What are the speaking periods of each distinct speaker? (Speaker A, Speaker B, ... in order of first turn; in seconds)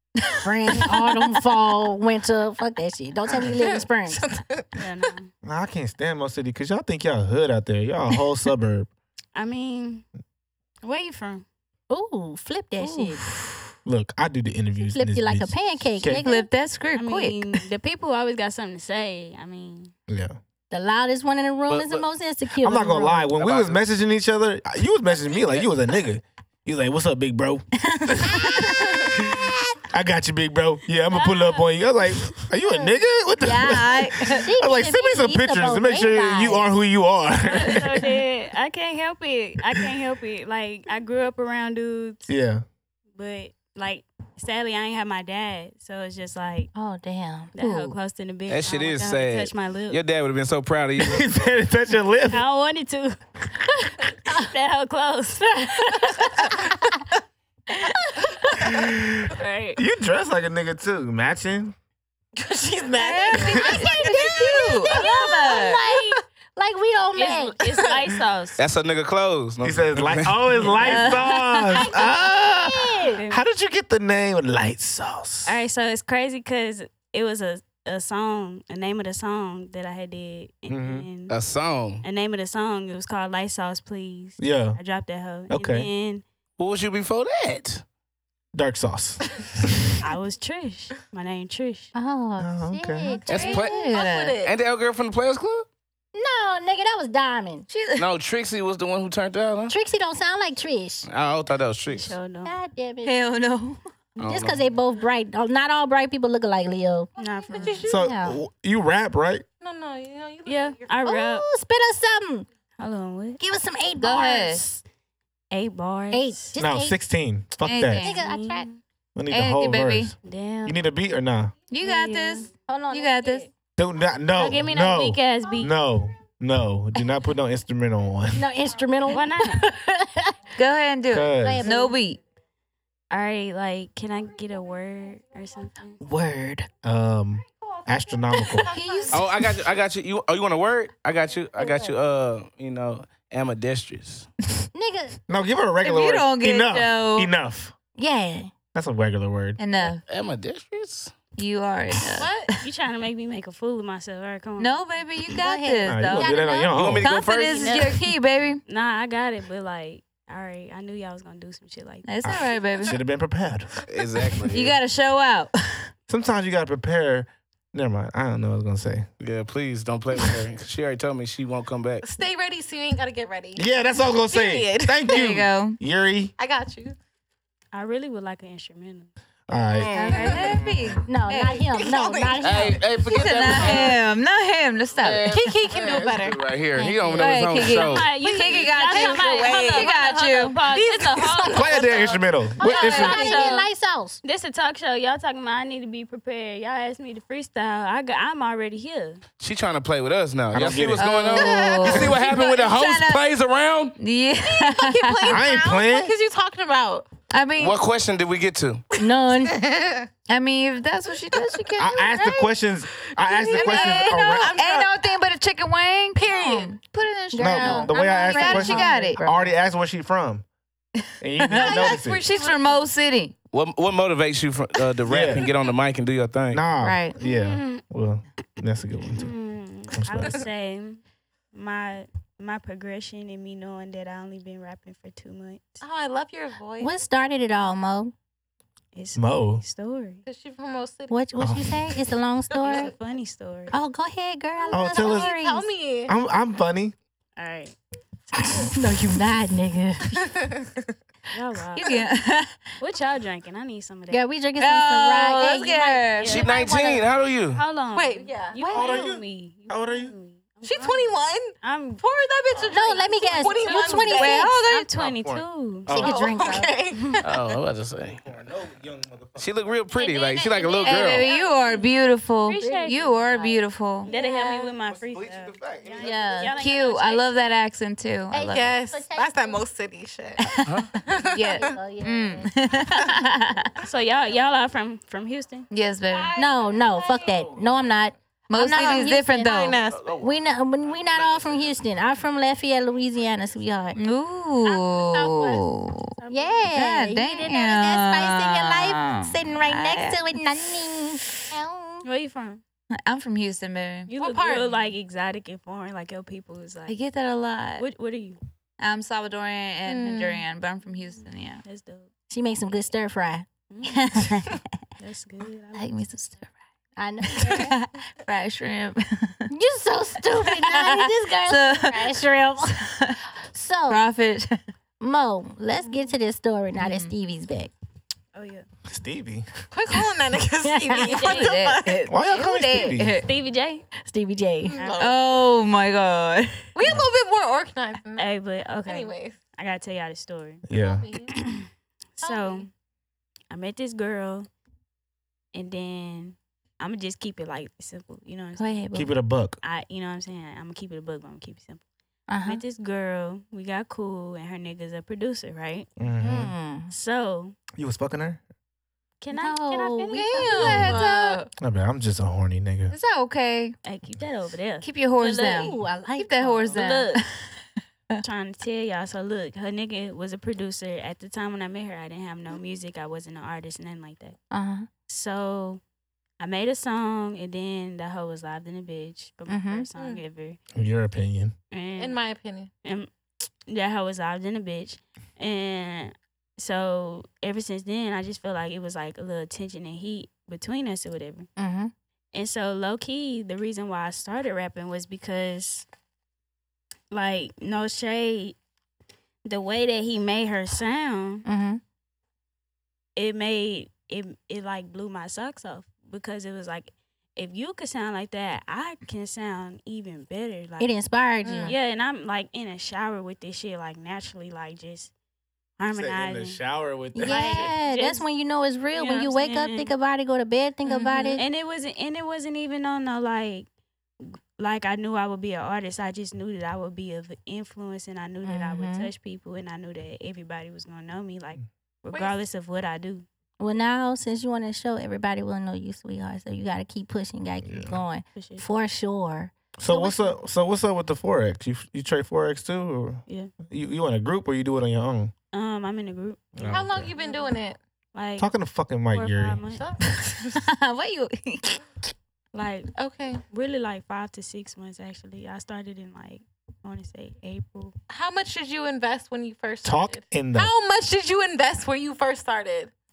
Speaker A: 0.3-1.2, 12.8-13.1, 16.1-17.6, 28.2-28.6, 33.4-34.5, 47.6-48.0, 63.0-65.8, 70.8-71.8, 93.5-94.3, 97.7-98.0, 103.0-103.8, 114.0-114.7, 117.6-118.2, 119.3-120.1, 121.7-123.5, 130.6-132.2, 145.8-147.3, 149.6-150.0, 151.3-152.7, 154.6-156.4, 157.0-158.6, 162.0-163.0, 164.5-165.9, 175.1-175.8, 179.9-181.6, 182.9-185.3, 187.2-190.6, 192.7-193.6, 201.0-203.2, 204.0-205.3, 207.3-207.8, 210.3-212.5, 213.5-219.2, 221.4-223.3, 226.8-227.1, 251.8-252.7, 254.6-256.4, 264.2-264.9, 270.8-274.1, 276.0-278.7, 281.3-283.7, 285.7-286.4, 288.5-289.8, 293.9-296.1, 296.7-300.2, 303.1-304.1, 306.9-307.9, 308.8-311.6, 313.9-314.6, 315.8-316.5, 317.4-319.5, 320.4-323.2, 323.9-324.6, 326.8-327.1, 331.3-333.3, 335.0-336.6, 360.7-361.3, 362.9-363.7, 364.8-367.5, 420.9-421.4, 450.2-451.8
Speaker B: 0.3-4.3, 11.9-13.3, 14.8-16.5, 20.7-23.3, 27.9-29.7, 34.3-36.6, 46.7-47.5, 63.9-64.3, 64.8-67.6, 71.8-73.2, 91.9-93.6, 96.1-97.7, 99.7-101.1, 102.4-103.1, 104.2-108.4, 111.0-112.5, 113.4-114.8, 116.1-117.0, 118.0-118.7, 121.8-123.5, 128.3-130.3, 131.3-131.9, 136.0-136.7, 138.6-139.3, 144.7-145.2, 147.9-148.5, 155.3-156.7, 181.0-183.9, 186.8-187.6, 192.6-194.2, 209.0-209.5, 217.3-219.5, 236.8-238.1, 241.1-242.9, 243.7-245.7, 248.4-250.2, 254.1-256.1, 262.7-264.5, 265.9-267.1, 272.6-274.7, 276.0-276.5, 278.3-279.6, 281.0-282.8, 286.3-294.0, 296.3-302.0, 312.3-313.4, 316.9-317.7, 319.5-322.7, 323.5-324.0, 325.0-327.7, 330.7-331.3, 334.0-334.9, 348.6-349.1, 352.3-352.6, 356.2-356.9, 359.3-361.1, 365.2-366.8, 374.5-374.9, 379.5-379.9, 391.6-391.9, 401.4-401.8, 410.8-411.8, 417.1-421.4, 428.4-429.1, 433.6-440.3
Speaker C: 3.4-5.1, 62.4-66.2, 93.2-94.5, 107.5-108.0, 109.6-111.0, 138.3-139.3, 152.1-152.5, 156.4-156.7, 172.0-175.3, 176.4-177.0, 180.1-180.7, 181.7-184.0, 185.2-186.4, 188.2-190.0, 190.6-192.2, 201.3-202.0, 204.4-207.1, 209.4-210.1, 213.1-215.1, 216.2-216.8, 221.6-222.9, 235.8-236.9, 240.2-241.2, 242.5-242.9, 244.7-246.1, 250.1-250.8, 257.9-259.2, 260.6-264.5, 265.9-267.4, 278.3-281.8, 288.8-290.1, 294.6-295.6, 304.1-304.8, 309.9-310.5, 329.7-332.1, 334.6-335.2, 336.7-338.3, 338.8-339.4, 340.7-341.3, 342.2-342.7, 360.1-361.5, 379.9-380.2, 382.0-382.7, 411.5-411.7, 432.1-432.4, 446.6-447.8, 449.7-450.6, 452.9-453.4, 458.1-462.9
Speaker D: 4.8-5.3, 9.3-10.1, 10.8-11.4, 16.9-19.9, 31.1-31.6, 37.5-42.3, 43.2-46.7, 47.5-50.0, 52.3-53.2, 54.0-56.5, 59.3-59.8, 67.1-68.6, 70.5-71.2, 73.1-73.4, 75.5-81.3, 82.0-86.2, 90.0-91.9, 101.9-102.5, 107.2-107.8, 110.5-111.4, 112.8-113.4, 115.5-116.5, 118.0-118.8, 120.2-120.8, 121.8-122.5, 124.3-125.7, 129.1-129.6, 133.1-136.0, 152.6-154.8, 157.5-157.9, 158.7-162.1, 177.7-179.1, 187.7-193.7, 194.2-199.2, 227.2-227.8, 229.2-235.8, 238.9-240.2, 242.6-243.8, 247.4-247.8, 248.3-248.7, 251.3-252.0, 252.8-254.2, 256.1-262.0, 263.7-266.1, 269.9-271.8, 272.4-273.1, 274.0-277.4, 283.8-285.7, 296.1-296.7, 302.0-302.6, 304.1-307.0, 307.8-308.4, 311.6-312.1, 313.7-314.0, 315.0-316.1, 328.3-328.7, 331.2-331.5, 333.2-333.8, 334.7-335.1, 338.2-340.6, 341.3-342.7, 343.5-344.5, 345.5-348.6, 349.6-351.8, 352.4-355.9, 356.9-357.5, 359.2-360.8, 363.8-365.8, 366.7-367.2, 368.2-374.4, 375.1-375.8, 376.4-380.6, 381.7-382.2, 382.8-383.1, 383.6-391.5, 392.3-395.9, 397.1-398.6, 399.4-401.4, 403.1-410.9, 411.6-415.1, 415.8-416.6, 417.2-418.2, 418.9-419.9, 421.3-423.7, 424.2-433.2, 438.3-438.6, 443.3-443.5, 445.5-447.5, 448.1-448.5, 449.1-449.8, 452.5-452.9, 453.5-457.9
Speaker E: 5.4-8.9, 13.8-16.2, 20.1-20.4, 22.6-38.0, 42.3-42.6, 51.0-52.4, 58.6-61.7, 69.6-75.5, 80.7-81.0, 84.4-84.8, 85.5-85.9, 88.5-90.0, 92.4-93.2, 107.9-109.4, 116.6-118.0, 119.2-121.5, 123.8-128.4, 131.1-131.7, 136.8-138.7, 145.3-147.7, 148.7-149.6, 155.8-157.1, 162.2-163.8, 166.1-169.1, 173.6-176.3, 179.5-180.4, 191.5-193.4, 200.5-201.1, 205.2-206.1, 211.8-214.6, 217.4-220.4, 221.2-222.2, 225.1-225.5, 226.5-229.3, 229.9-230.4, 239.2-239.6, 241.4-241.9, 244.7-245.3, 246.1-246.9, 258.7-260.1, 264.9-266.2, 268.1-269.8, 274.9-276.1, 328.8-329.5, 332.1-333.2, 340.7-341.0, 348.9-349.6, 356.0-356.5, 357.7-358.4, 361.6-362.9, 380.7-381.5, 415.9-417.7, 437.6-438.0, 439.8-445.3, 446.6-447.1, 448.4-449.6, 459.8-460.7
Speaker F: 21.7-22.1, 23.4-23.8, 48.5-51.3, 68.6-70.7, 81.3-82.0, 86.6-87.8, 93.3-93.8, 94.4-95.7, 98.0-99.7, 101.0-102.2, 104.2-104.6, 139.1-144.3, 150.1-151.1, 156.7-158.0, 163.9-164.8, 169.2-172.1, 179.6-180.7, 182.4-183.9, 184.9-188.1, 199.4-204.0, 207.6-208.8, 223.5-226.6, 256.2-257.6, 267.2-268.2, 269.4-271.3, 280.6-280.9, 290.0-290.2, 290.9-291.7